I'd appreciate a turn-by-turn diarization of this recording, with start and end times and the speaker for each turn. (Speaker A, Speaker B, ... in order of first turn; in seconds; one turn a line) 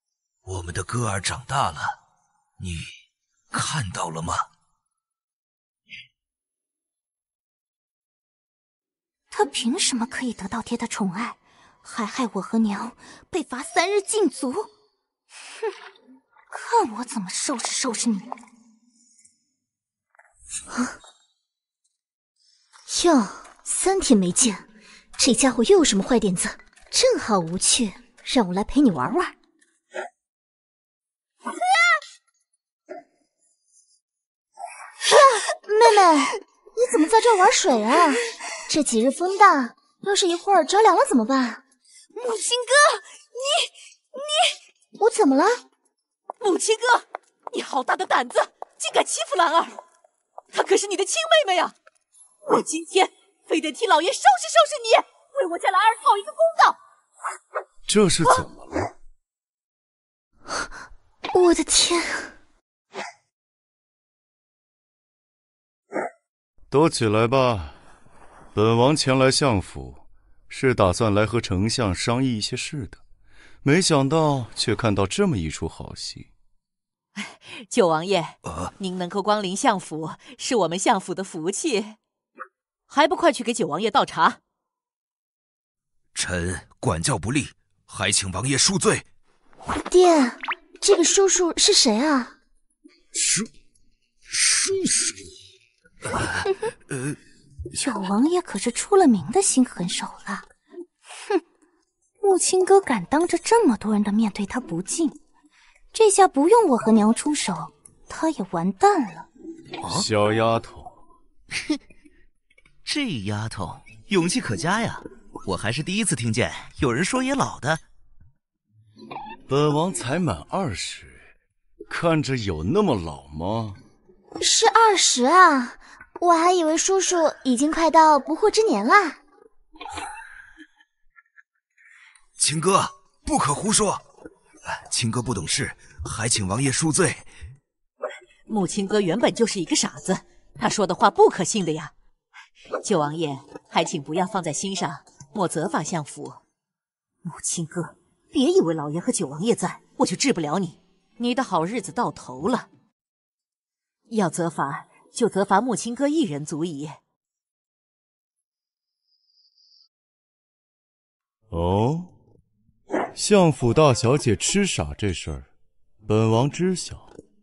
Speaker A: 0.4-2.0
Speaker A: 2.6-2.9
Speaker A: 3.5-4.5
Speaker B: 9.3-14.7
Speaker B: 16.5-18.3
Speaker C: 22.9-24.6
Speaker C: 25.2-29.3
Speaker C: 35.0-41.6
Speaker B: 42.1-43.7
Speaker C: 45.0-45.6
Speaker D: 46.4-49.8
Speaker D: 50.5-51.7
Speaker D: 52.4-56.8
Speaker E: 57.9-58.9
Speaker C: 61.3-62.3
Speaker E: 66.7-67.8
Speaker E: 68.5-73.0
Speaker E: 73.6-76.3
Speaker D: 77.2-82.0
Speaker A: 78.5-78.7
Speaker D: 82.9-84.4
Speaker A: 86.1-89.1
Speaker C: 89.7-92.3
Speaker A: 94.3-95.0
Speaker A: 96.0-97.2
Speaker B: 97.7-100.5
Speaker B: 102.2-105.2
Speaker B: 105.9-109.3
Speaker F: 109.8-110.0
Speaker E: 109.8-111.0
Speaker F: 112.8-117.8
Speaker E: 119.5-121.3
Speaker E: 121.9-123.8
Speaker C: 124.4-129.2
Speaker A: 132.4-134.0
Speaker A: 134.7-137.3
Speaker D: 138.5-141.9
Speaker D: 142.8-146.4
Speaker D: 147.2-152.7
Speaker D: 154.1-157.0
Speaker E: 161.5-162.1
Speaker E: 163.1-165.5
Speaker E: 166.0-167.1